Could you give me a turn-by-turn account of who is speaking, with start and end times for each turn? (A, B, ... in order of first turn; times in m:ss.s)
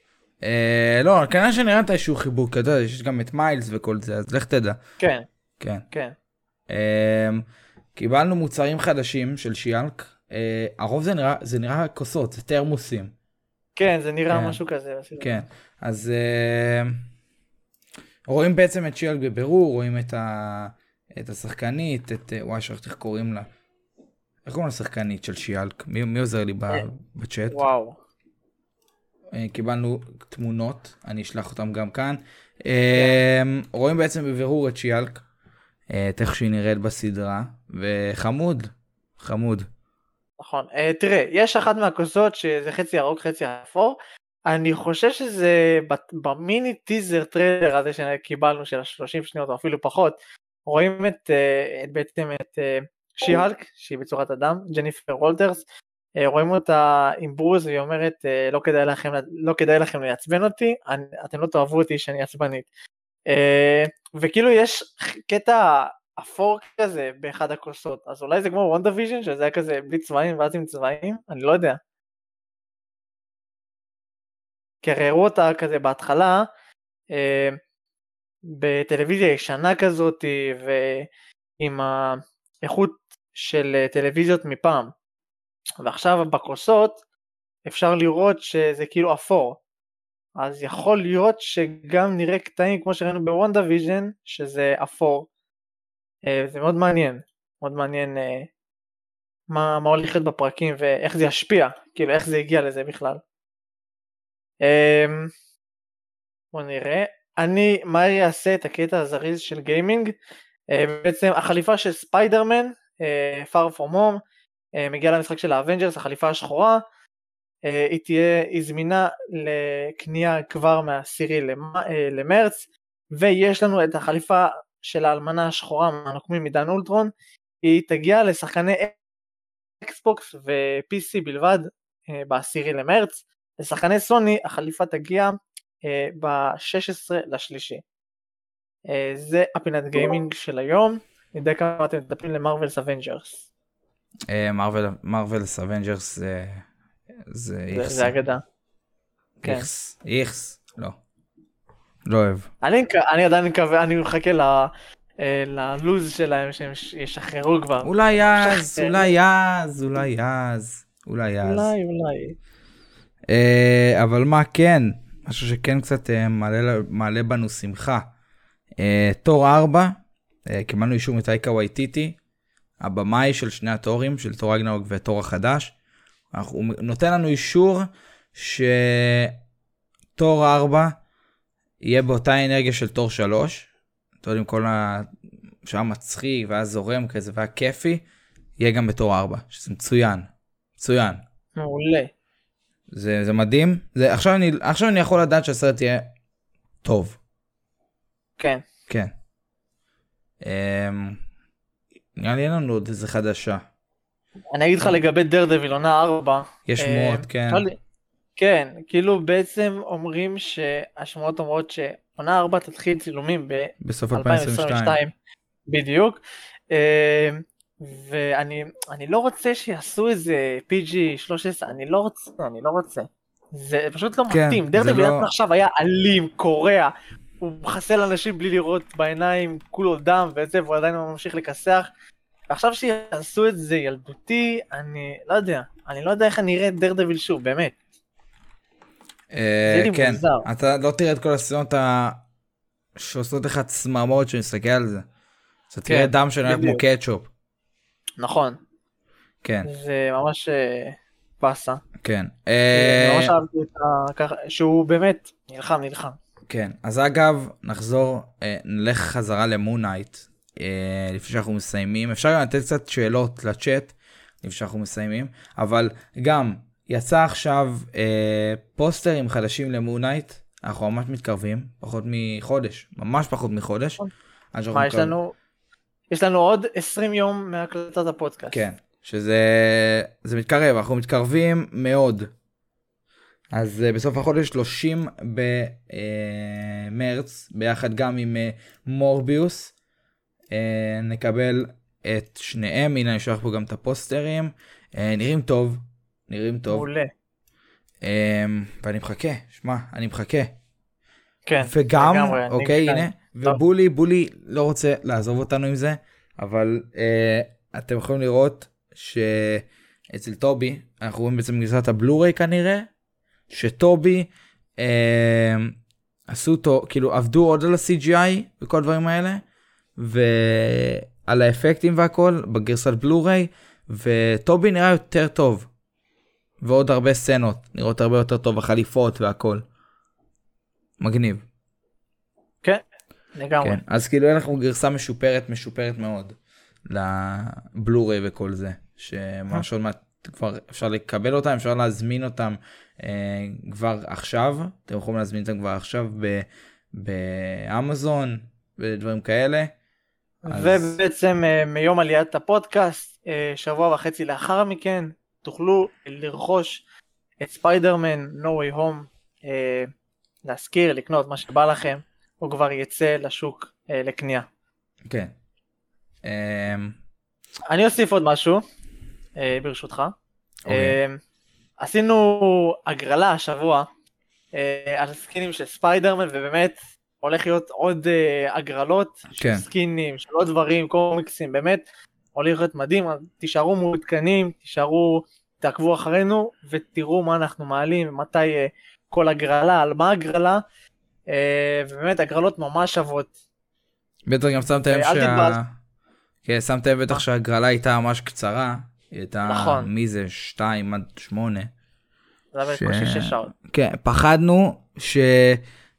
0:00.4-0:04.8 A
0:05.0-0:05.3 B
0:05.6-0:05.8 A
0:06.7-0:13.1 A
0:13.8-0:15.4 B
0:14.3-0:14.6 A
0:15.2-0:17.0 A
0:18.3-0:23.5 A
0:24.4-0:27.6 A
0:27.5-0:28.0 B
0:29.3-0:35.2 A
0:32.9-0:33.2 B
0:35.9-0:39.7 A
0:40.4-0:55.6 B
0:56.2-1:02.7 B
1:03.3-1:11.8 B
1:14.8-1:16.5 B
1:17.1-1:17.6 B
1:18.5-1:21.1 B
1:21.6-1:24.9 B
1:25.8-1:27.0 B
1:27.7-1:29.6 B
1:30.4-1:35.3 B
1:36.3-1:38.5 B
1:39.5-1:43.2 B
1:44.6-1:45.3 B
1:46.5-1:50.1 B
1:50.7-1:54.2 B
1:54.8-1:56.8 B
1:57.6-2:07.1 B
2:07.6-2:09.0 B
2:09.8-2:17.8 B
2:18.9-2:23.5 B
2:24.3-2:26.7 A
2:27.3-2:28.1 A
2:27.7-2:28.4 B
2:29.4-2:31.0 A
2:32.0-2:32.5 A
2:32.6-2:39.2 B
2:37.8-2:41.7 A
2:41.4-2:42.4 B
2:43.3-2:48.1 A
2:48.8-2:52.2 A
2:52.8-2:55.7 A
2:56.3-2:59.4 A
3:00.2-3:01.0 A
3:01.8-3:03.7 A
3:04.2-3:05.1 A
3:05.6-3:08.0 A
3:08.6-3:11.2 A
3:11.6-3:12.1 B
3:12.9-3:16.1 A
3:16.8-3:17.2 A
3:20.4-3:21.2 A
3:22.2-3:23.7 A
3:24.5-3:27.8 B
3:26.7-3:27.7 A
3:28.4-3:35.1 B
3:33.8-3:35.0 A
3:35.7-3:51.9 B
3:44.3-3:45.3 A
3:52.5-3:57.8 B
3:59.3-4:02.2 A
3:59.7-4:00.5 B
4:03.0-4:05.1 A
4:05.7-4:07.3 A
4:05.9-4:06.8 B
4:08.2-4:08.6 B
4:09.4-4:09.7 A
4:09.6-4:11.8 B
4:12.0-4:13.3 A
4:12.7-4:16.2 B
4:16.5-4:34.0 A
4:34.5-4:35.2 A
4:34.7-4:35.3 B
4:36.1-4:38.6 B
4:38.5-4:42.3 A
4:43.5-4:49.7 A
4:50.5-4:56.9 A
4:56.7-4:57.1 B
4:58.0-5:00.6 A
5:01.5-5:03.6 B
5:01.6-5:12.9 A
5:13.5-5:15.7 A
5:16.3-5:19.4 A
5:20.0-5:25.7 A
5:26.6-5:29.6 A
5:31.0-5:31.4 A
5:33.4-5:33.8 B
5:33.6-5:49.7 A
5:50.5-5:56.8 B
5:50.5-5:50.9 A
5:57.4-5:59.9 B
6:00.4-6:04.5 B
6:05.1-6:05.3 A
6:06.2-6:07.0 A
6:07.7-6:08.6 B
6:09.4-6:10.1 B
6:10.7-6:11.0 A
6:10.7-6:11.2 B
6:11.8-6:13.9 B
6:14.5-6:21.8 B
6:19.4-6:19.6 A
6:22.4-6:30.6 B
6:31.3-6:33.3 B
6:34.3-6:35.7 A
6:34.9-6:35.6 B
6:36.4-6:41.7 A
6:39.4-6:39.9 B
6:42.5-6:43.5 B
6:42.7-6:45.6 A